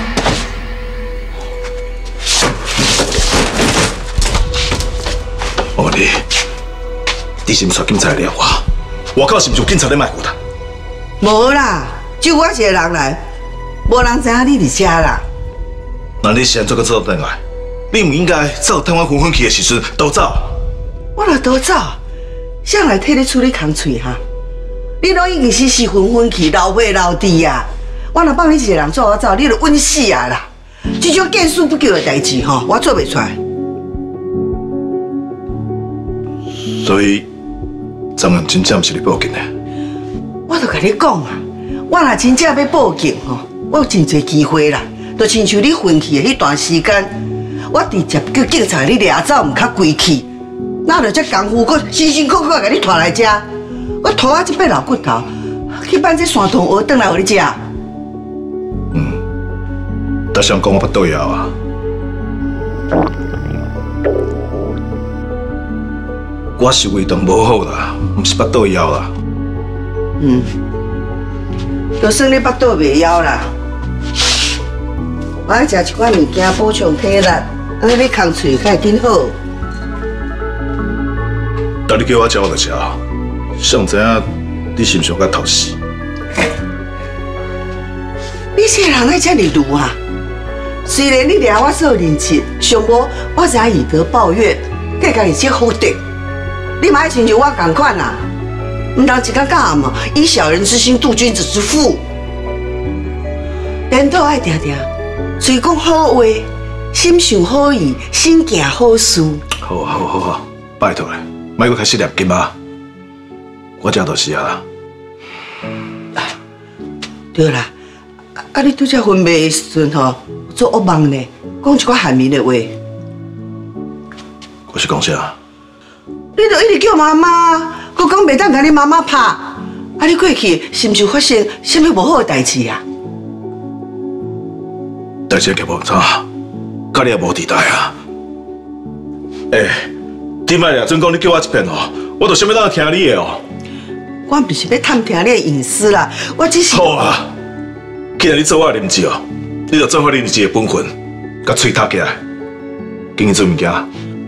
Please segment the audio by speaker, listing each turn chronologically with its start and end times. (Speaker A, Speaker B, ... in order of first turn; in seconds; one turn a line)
Speaker A: 5.8-6.2
Speaker A: 7.5-10.4
Speaker B: 11.2-13.2
Speaker B: 13.9-15.2
Speaker A: 16.2-20.6
Speaker B: 21.2-22.0
Speaker B: 22.6-24.2
Speaker B: 25.0-33.4
Speaker A: 36.6-37.3
Speaker A: 38.2-39.5
Speaker B: 40.5-47.2
Speaker B: 47.7-50.3
Speaker B: 50.9-53.5
Speaker B: 54.0-57.6
Speaker A: 58.9-59.2
Speaker A: 60.3-61.5
Speaker A: 66.6-69.1
Speaker B: 70.2-70.5
Speaker B: 72.0-73.5
Speaker B: 75.5-79.4
Speaker A: 81.9-83.0
Speaker A: 83.6-85.8
Speaker B: 88.5-90.0
Speaker B: 90.8-96.0
Speaker B: 96.8-98.2
Speaker B: 99.0-102.0
Speaker B: 103.9-109.4
Speaker A: 109.6-112.5
Speaker A: 113.8-114.6
Speaker B: 117.3-117.7
Speaker B: 118.4-122.8
Speaker A: 124.7-125.3
Speaker B: 126.4-132.8
Speaker A: 135.3-136.3
Speaker A: 136.9-137.9
Speaker A: 139.5-139.9
Speaker A: 140.5-143.4
Speaker B: 144.3-147.2
Speaker A: 146.7-147.3
Speaker A: 148.2-152.2
Speaker A: 153.2-153.9